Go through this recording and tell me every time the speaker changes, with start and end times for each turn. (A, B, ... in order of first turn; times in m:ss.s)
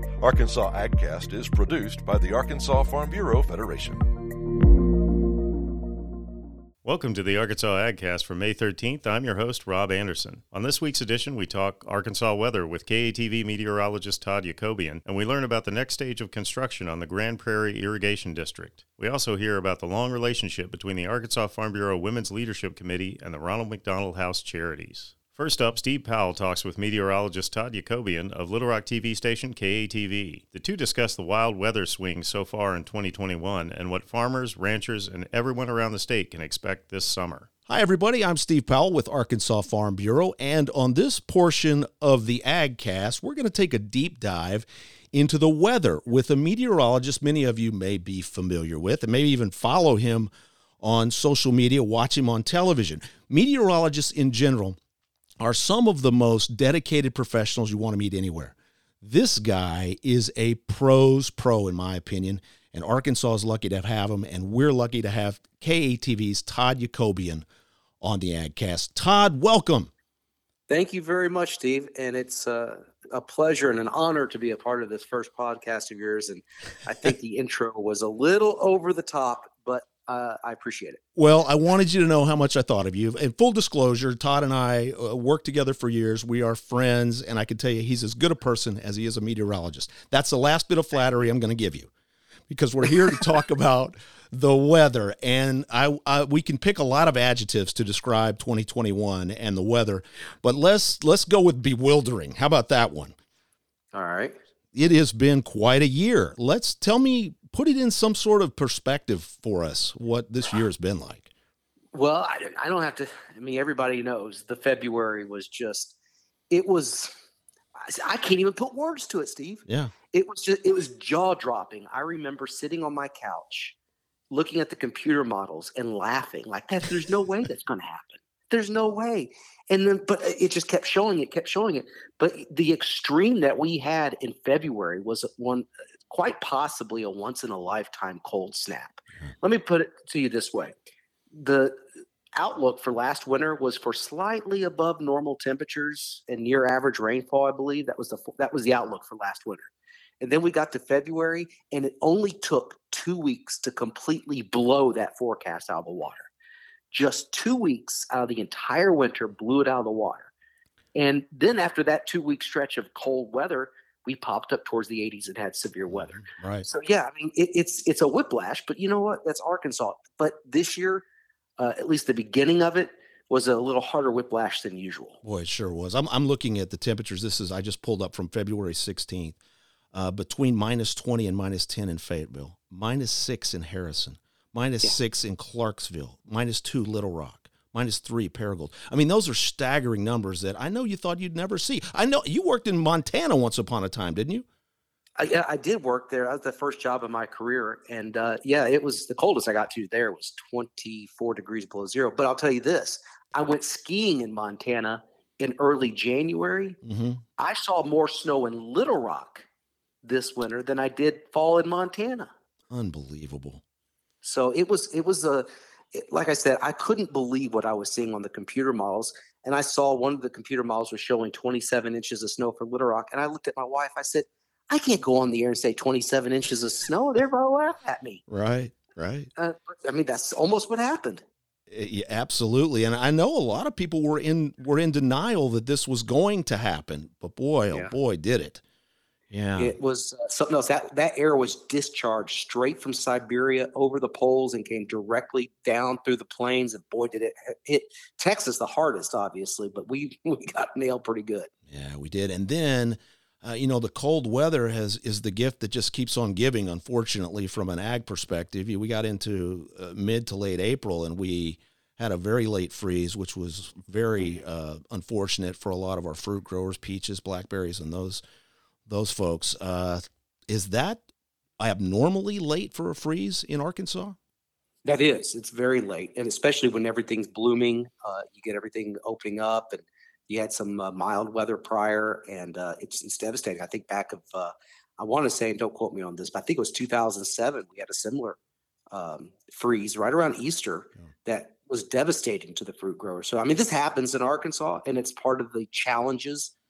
0:00.2-0:04.0 A
0:06.8-0:37.5 B
0:37.7-0:50.3 C
0:50.8-0:54.8 C
0:55.4-1:07.5 C
1:08.0-1:09.9 C
1:10.7-1:21.0 D
1:21.2-1:31.9 C
1:32.5-1:43.2 C
1:43.9-1:44.4 D
1:44.7-1:51.3 C
1:51.9-1:56.0 D
1:56.5-1:57.2 D
1:57.8-2:03.8 D
1:59.7-1:59.9 C
2:04.3-2:20.8 D
2:21.3-2:36.3 D
2:36.9-2:40.3 D
2:41.0-2:51.0 D
2:45.9-2:46.7 C
2:51.6-2:55.2 D
2:55.2-2:59.4 C
2:59.9-3:14.4 C
3:15.2-3:26.8 D
3:26.8-3:27.2 C
3:27.4-3:29.4 D
3:30.0-3:32.3 D
3:32.7-3:33.6 C
3:34.2-3:48.2 D
3:48.3-3:49.3 C
3:49.4-3:51.2 D
3:51.7-3:58.6 C
3:59.3-3:59.7 C
3:59.6-4:11.5 D
4:11.7-4:28.2 C
4:28.9-4:31.0 C
4:31.6-4:34.2 C
4:34.8-4:48.4 D
4:48.9-4:56.5 D